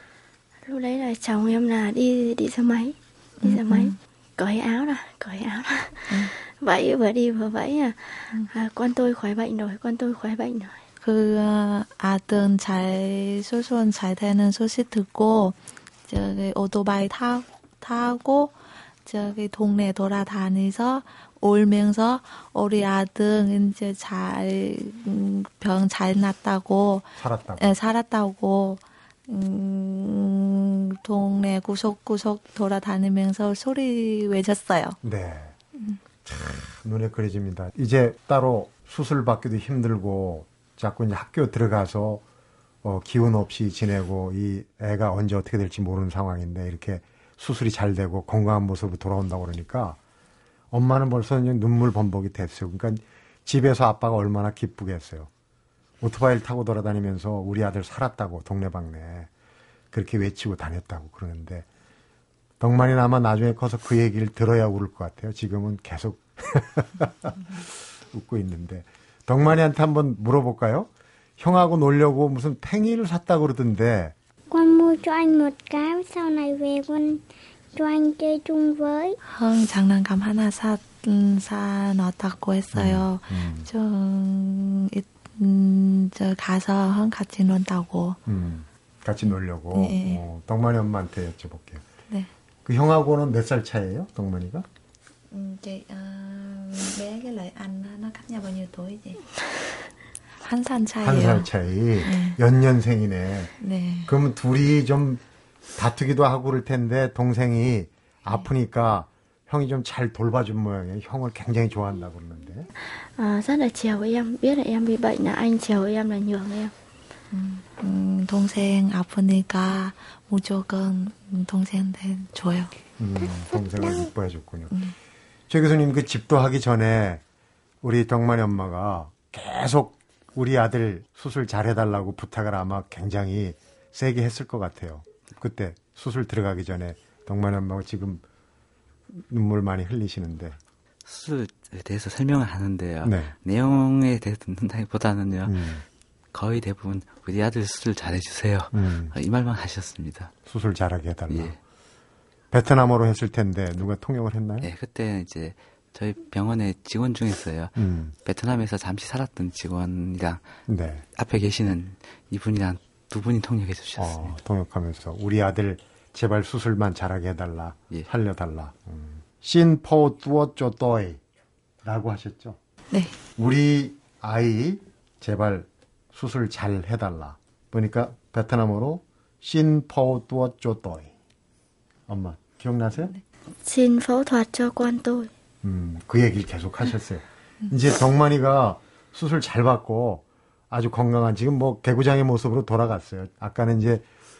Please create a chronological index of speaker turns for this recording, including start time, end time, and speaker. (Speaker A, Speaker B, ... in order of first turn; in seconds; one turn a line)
Speaker A: 0.6-10.8
Speaker B: 3.4-3.9
Speaker B: 11.0-15.6
Speaker B: 16.1-18.5
Speaker B: 19.0-35.0
Speaker C: 27.2-27.7
Speaker C: 35.0-35.5
Speaker C: 36.2-42.2
Speaker C: 42.8-50.0
Speaker C: 50.7-55.3
Speaker C: 56.0-59.3
Speaker C: 59.9-61.6
Speaker C: 62.6-74.1
Speaker D: 74.5-79.2
Speaker B: 79.2-88.2
Speaker C: 82.7-83.7
Speaker C: 88.2-91.8
Speaker B: 89.7-90.2
Speaker C: 92.6-94.7
Speaker B: 95.3-99.2
Speaker B: 100.4-101.5
Speaker C: 101.0-103.5
Speaker B: 102.0-102.4
Speaker B: 103.6-104.1
Speaker C: 104.0-105.2
Speaker C: 105.8-112.7
Speaker A: 112.8-116.7
Speaker B: 117.3-122.7
Speaker C: 123.0-124.8
Speaker C: 125.5-127.2
Speaker C: 127.8-138.2
Speaker C: 139.1-140.6
Speaker E: 141.1-145.7
Speaker C: 143.0-143.3
Speaker C: 145.4-145.8
Speaker E: 146.3-150.3
Speaker C: 148.7-149.1
Speaker C: 150.4-151.5
Speaker E: 151.3-151.6
Speaker C: 152.5-154.7
Speaker E: 154.6-160.4
Speaker C: 157.8-158.1
Speaker C: 160.7-161.0
Speaker E: 161.2-164.3
Speaker C: 164.0-171.2
Speaker C: 171.8-172.6
Speaker C: 173.4-181.1
Speaker C: 182.1-183.1
Speaker A: 183.6-185.3
Speaker C: 185.6-194.0